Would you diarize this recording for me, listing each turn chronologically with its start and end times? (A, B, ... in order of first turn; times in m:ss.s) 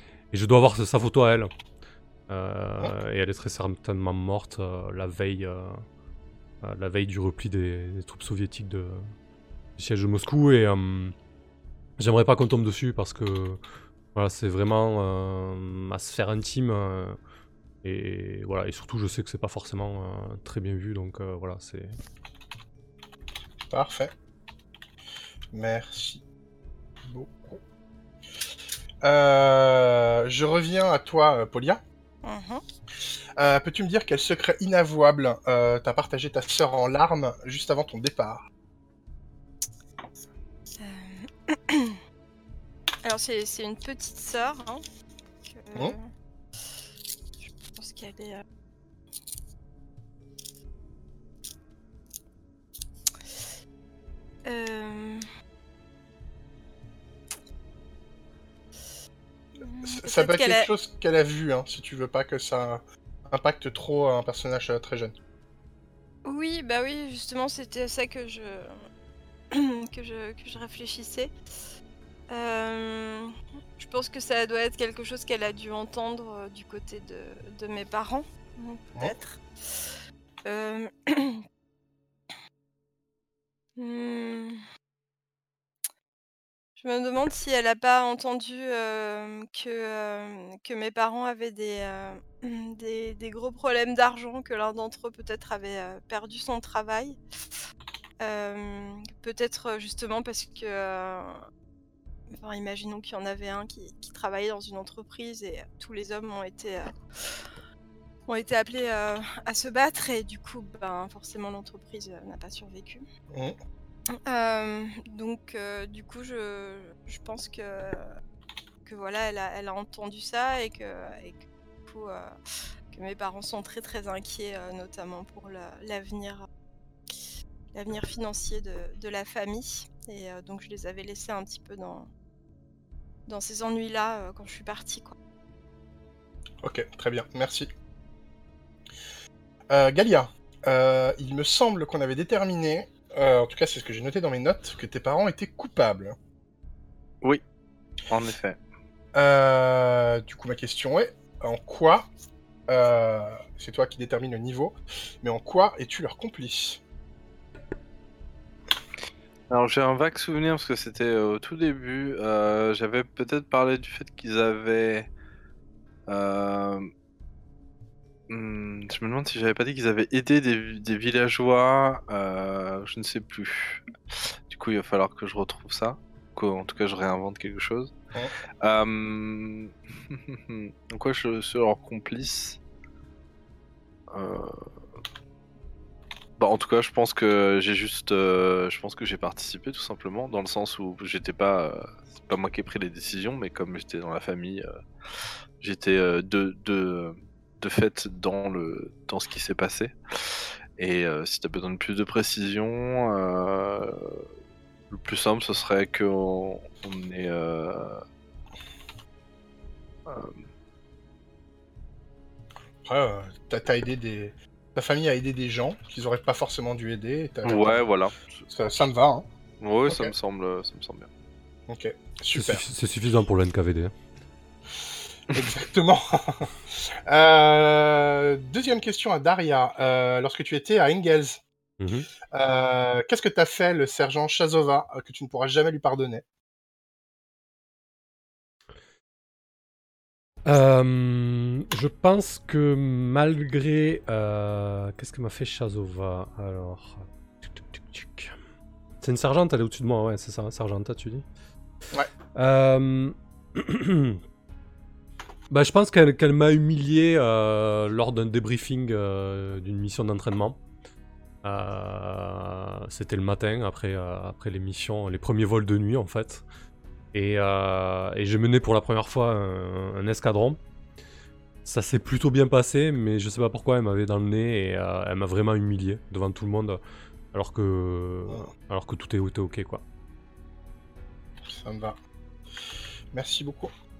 0:00.3-0:01.5 A
0:02.3-0:05.8 A
0:06.6-0:09.1 A
0:09.8-0:11.1 A
0:12.0-0:13.6 A
0:14.1-0:17.2 A
0:17.8-0:22.0 A
0:23.7-0:24.1 B
0:25.5-0:26.2 B
0:27.0-0:27.6 B
0:29.0-0:31.8 B
0:32.2-0:32.6 C
0:33.4-0:38.4 B
0:40.8-0:42.0 C
0:43.0-0:44.8 C
0:45.5-0:46.1 C
0:47.4-0:48.4 C
0:54.5-0:55.2 C
0:59.6-1:00.7 C
0:59.8-1:05.1 B
1:06.2-1:08.8 C
1:09.5-1:11.3 C
1:12.3-1:19.9 C
1:20.5-1:21.4 C
1:23.8-1:24.6 C
1:26.8-1:37.2 C
1:38.2-1:41.4 C
1:42.3-1:47.4 C
1:48.3-1:53.0 C
1:54.2-1:58.1 C
1:58.8-2:02.4 C
2:02.9-2:06.5 C
2:07.7-2:12.1 C
2:13.3-2:15.2 C
2:16.6-2:17.7 B
2:19.7-2:26.2 B
2:28.1-2:28.6 D
2:29.1-2:32.1 B
2:32.7-2:36.8 B
2:39.5-2:45.1 D
2:46.1-2:46.9 D
2:48.3-2:53.9 D
2:54.5-2:57.9 D
2:58.6-3:02.6 D
3:04.1-3:04.7 D
3:06.4-3:14.7 D
3:15.6-3:24.2 D
3:24.9-3:28.0 D
3:30.0-3:30.3 D
3:32.8-3:37.8 B
3:37.4-3:38.2 D
3:38.5-3:39.3 B
3:39.6-3:41.1 D
3:41.7-3:42.6 B
3:42.3-3:43.9 A
3:45.3-3:51.4 B
3:51.8-3:52.1 A
3:52.3-3:56.2 B
4:00.4-4:08.3 A
4:09.0-4:11.2 A
4:12.3-4:14.2 A
4:15.5-4:20.6 A
4:21.4-4:26.4 A
4:27.1-4:30.6 A
4:31.6-4:36.8 A
4:37.3-4:39.8 A
4:41.5-4:42.0 B
4:43.1-4:43.7 B